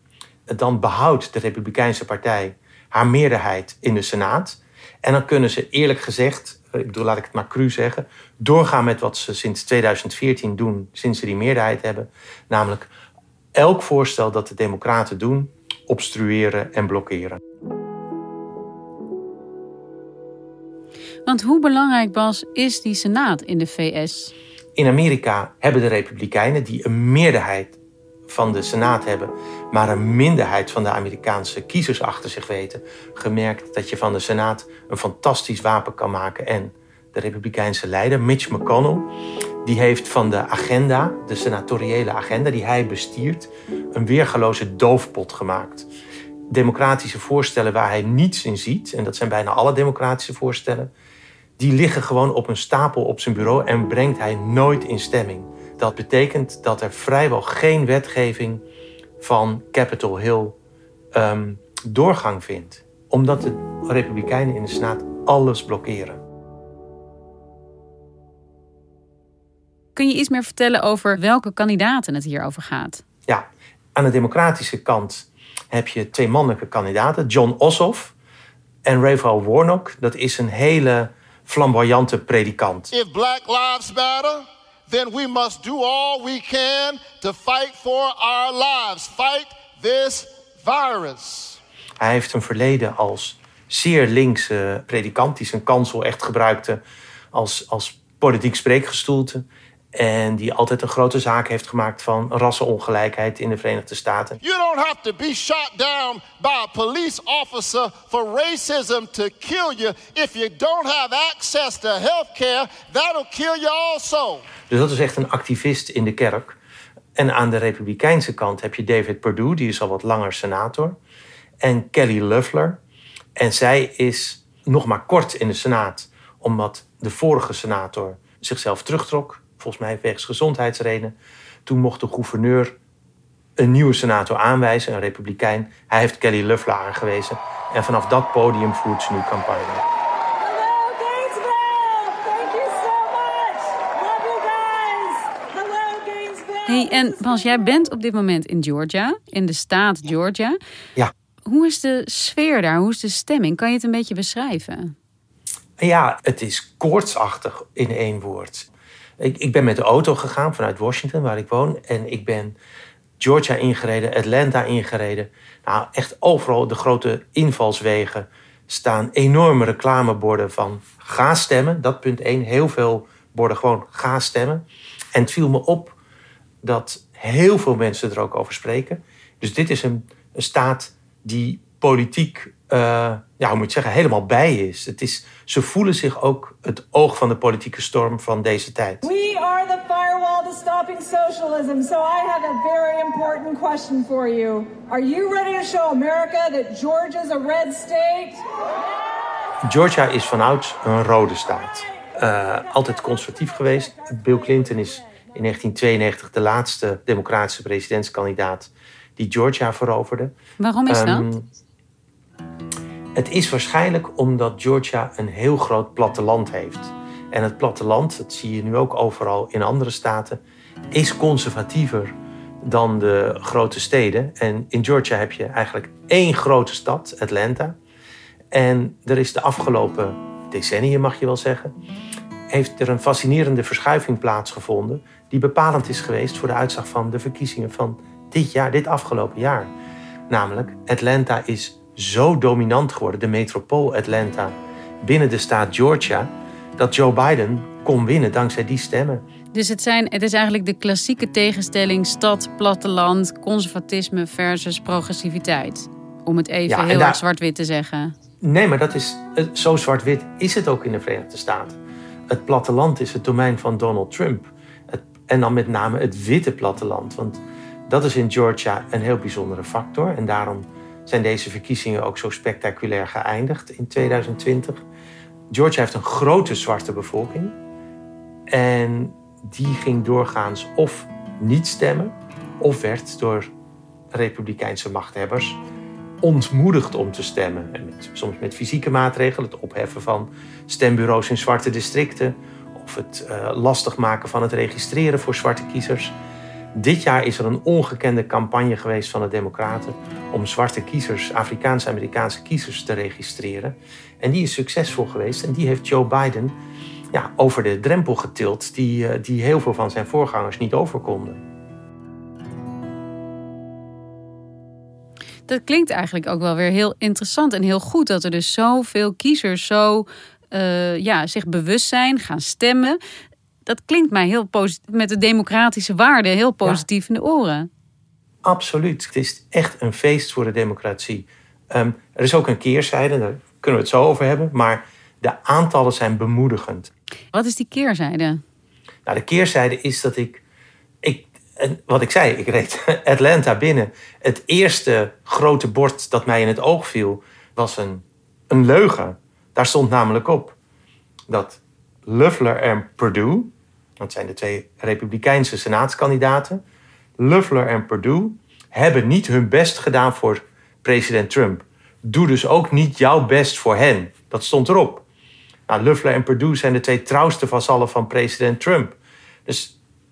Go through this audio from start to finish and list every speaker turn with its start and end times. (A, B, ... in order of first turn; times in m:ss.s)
0:00.5-0:12.9 A
0:13.5-0:17.4 A
0:21.2-0:24.3 B
0:24.8-0:39.1 A
0:39.6-0:45.9 A
0:46.5-0:50.9 A
0:51.6-0:58.6 A
0:59.2-1:00.6 A
1:01.1-1:06.2 A
1:09.9-1:13.0 B
1:14.0-1:18.1 A
1:18.8-1:22.9 A
1:22.9-1:31.6 C
1:32.0-1:36.8 A
1:37.3-1:44.4 A
1:44.4-1:54.4 C
1:54.7-1:56.6 A
1:57.2-2:01.0 A
2:01.6-2:02.8 A
2:03.4-2:11.1 A
2:11.6-2:12.7 A
2:13.6-2:19.8 A
2:20.4-2:27.6 D
2:26.6-2:30.6 B
2:31.4-2:34.9 B
2:35.8-2:38.7 A
2:39.2-2:42.6 A
2:43.2-2:56.0 A
2:56.6-3:09.0 A
3:09.0-3:18.4 D
3:19.6-3:30.3 A
3:30.6-3:31.3 B
3:30.9-3:31.4 A
3:33.1-3:40.4 A
3:40.9-3:47.8 A
3:48.5-3:51.7 A
3:52.5-3:59.7 A
4:00.3-4:09.2 A
4:09.5-4:18.1 B
4:16.7-4:17.2 A
4:18.4-4:21.8 A
4:22.3-4:34.8 A
4:35.5-4:37.6 A
4:38.5-4:43.5 A
4:44.1-4:45.6 A
4:46.2-4:56.1 A
4:56.7-5:06.6 A
5:07.1-5:11.4 A
5:15.5-5:23.0 B
5:23.6-5:27.7 B
5:28.4-5:36.9 A
5:37.3-5:38.4 B
5:39.0-5:40.4 A
5:41.0-5:50.6 A
5:51.3-5:56.6 A
5:57.2-6:05.0 A
6:05.7-6:09.7 A